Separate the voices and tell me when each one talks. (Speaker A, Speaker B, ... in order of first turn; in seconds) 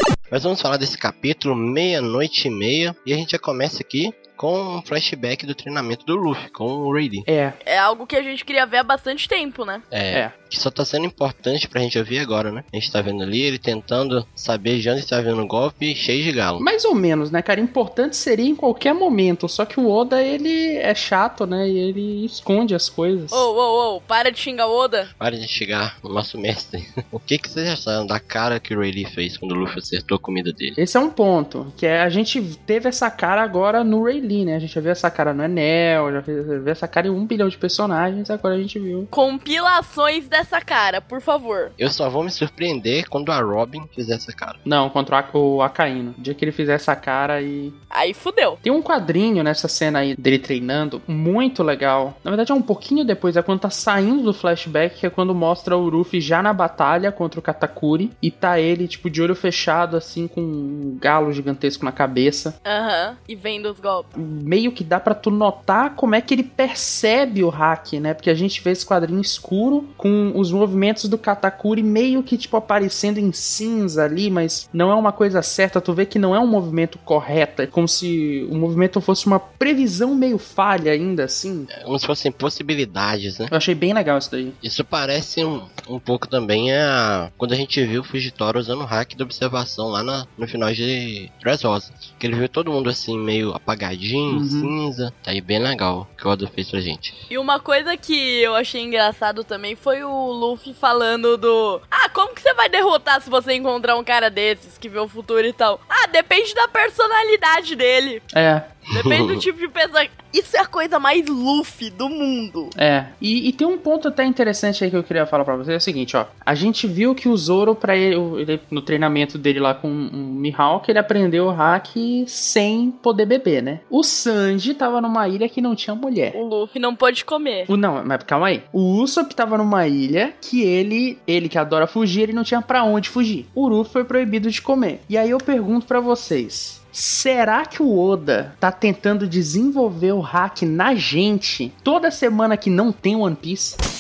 Speaker A: 0.3-7.3, 9.9-16.6, 25.2-30.8, 41.8-44.6, 81.7-83.5, 84.6-97.2, 108.9-109.5
Speaker B: 7.3-7.6, 16.6-23.5, 30.8-39.1, 44.6-47.8, 48.6-62.6, 64.2-81.7, 83.5-84.6, 94.3-94.8, 108.3-108.7, 112.8-126.4, 127.7-143.8
Speaker C: 7.6-9.8, 23.3-25.1, 39.1-41.7, 47.9-48.6, 62.6-64.1, 97.3-108.2, 108.9-112.7, 126.3-127.7